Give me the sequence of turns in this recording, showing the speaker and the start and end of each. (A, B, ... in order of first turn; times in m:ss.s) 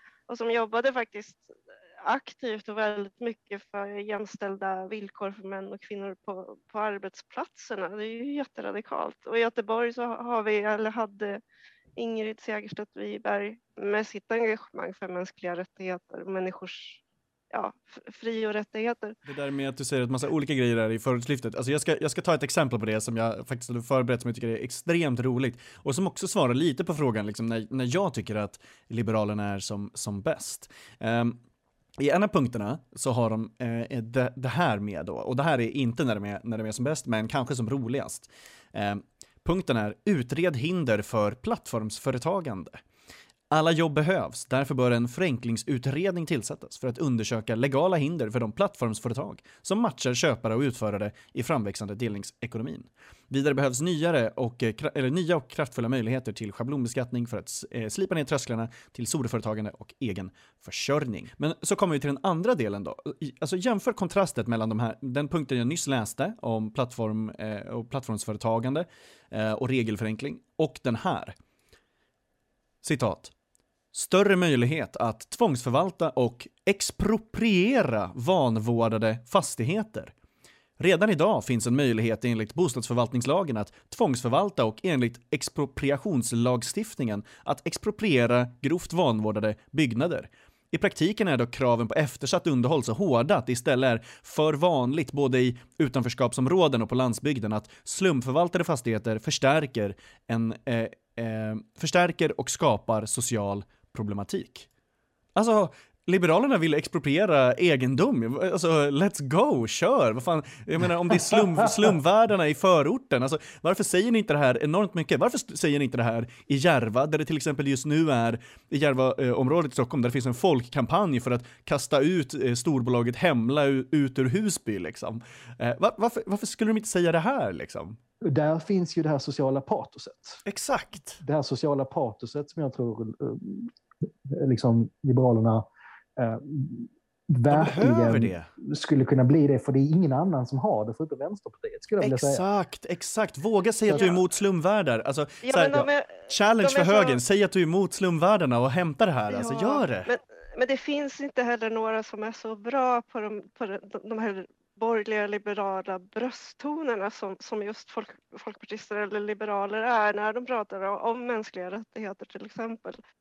0:00.3-0:11.4 A
0:12.0-0:19.2 A
0:19.2-0:31.4 B
0:32.0-0:42.8 B
0:43.5-1:11.4 B
1:12.8-1:13.3 B
1:13.9-1:20.1 B
1:20.8-1:44.7 B
1:45.4-2:08.0 B
1:51.3-1:51.7 C
2:08.2-2:10.4 C
2:10.4-2:11.2 B
2:11.2-2:22.4 C
2:17.5-2:18.5 B
2:22.0-2:30.1 B
2:25.4-2:27.2 A
2:29.3-2:43.0 A